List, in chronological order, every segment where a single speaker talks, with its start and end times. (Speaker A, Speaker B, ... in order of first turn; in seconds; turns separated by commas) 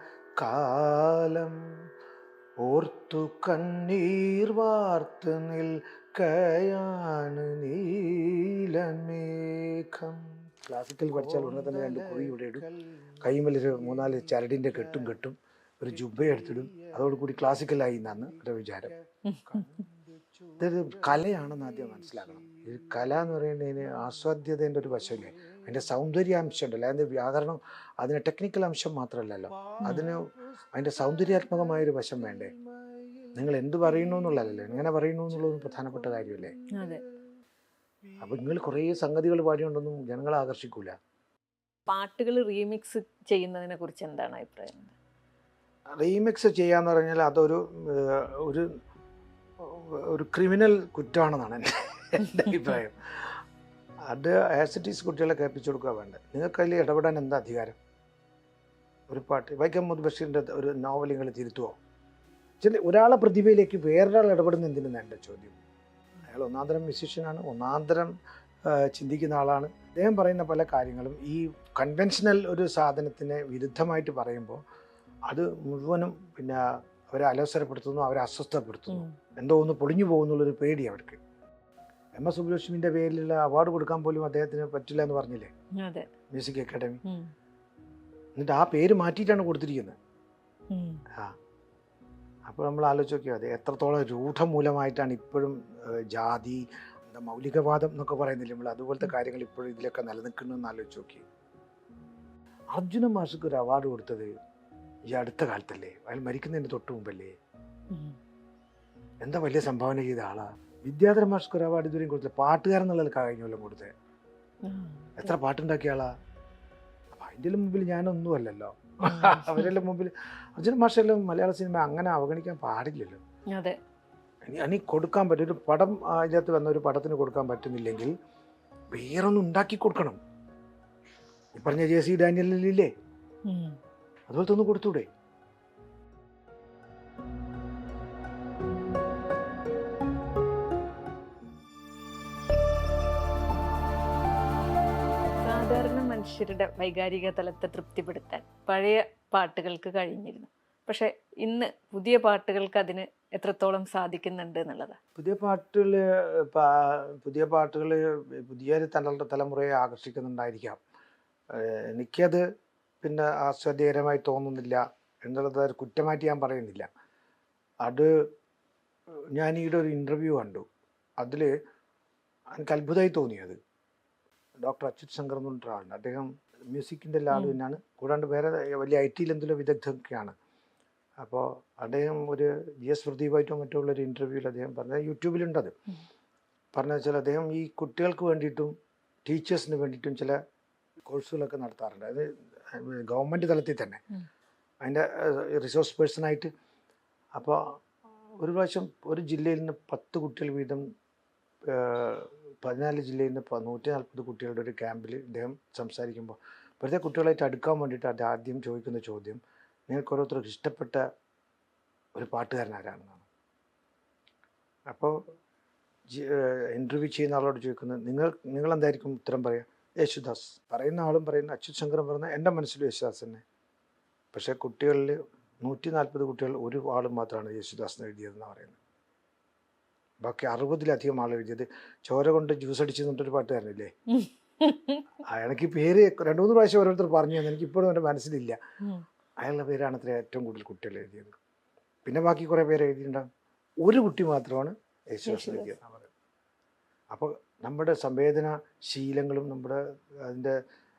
Speaker A: 0.4-1.6, Speaker A: 2.6-12.7, Speaker A: 13.2-18.9, Speaker B: 19.2-19.6, Speaker A: 20.6-32.5, Speaker B: 29.8-30.1, Speaker A: 33.4-36.6, Speaker B: 36.7-37.0, Speaker A: 38.2-40.9, Speaker B: 41.9-44.9, Speaker A: 46.0-48.7, Speaker A: 49.6-52.9, Speaker A: 54.0-57.8, Speaker A: 59.1-61.8, Speaker A: 62.6-65.6, Speaker A: 66.2-68.1, Speaker A: 68.7-74.6, Speaker A: 75.3-81.2, Speaker B: 78.9-79.2, Speaker A: 82.2-85.5, Speaker B: 85.8-86.1, Speaker A: 86.3-87.0, Speaker B: 87.0-87.3, Speaker A: 88.4-90.0, Speaker B: 90.7-91.0, Speaker A: 92.5-101.2, Speaker A: 102.7-104.3, Speaker A: 105.1-107.3, Speaker B: 107.9-108.2, Speaker A: 109.2-113.9, Speaker B: 114.6-115.3, Speaker A: 115.2-116.1, Speaker A: 117.1-123.2, Speaker B: 119.0-119.7, Speaker A: 124.5-128.1, Speaker A: 128.9-130.2, Speaker A: 131.5-132.9, Speaker B: 133.4-133.8, Speaker A: 134.3-135.1, Speaker B: 145.4-155.0, Speaker A: 155.2-160.8, Speaker A: 161.5-162.4, Speaker A: 163.0-166.9, Speaker A: 167.8-168.1, Speaker A: 169.3-170.7, Speaker A: 171.2-171.5, Speaker A: 172.5-173.6, Speaker A: 174.6-180.3, Speaker B: 177.3-177.6, Speaker A: 181.2-185.7, Speaker A: 186.7-188.7, Speaker A: 189.2-190.4, Speaker A: 191.1-194.0, Speaker A: 194.8-196.5, Speaker A: 197.3-197.6, Speaker A: 198.4-200.8, Speaker A: 201.7-211.0, Speaker A: 212.2-213.2, Speaker A: 214.9-215.1, Speaker A: 216.1-223.4, Speaker A: 224.3-228.8, Speaker A: 230.2-233.9, Speaker B: 234.1-235.0, Speaker A: 235.3-238.6, Speaker A: 239.4-241.4, Speaker A: 242.0-243.2, Speaker A: 243.8-246.1, Speaker B: 245.2-245.7, Speaker A: 247.1-250.5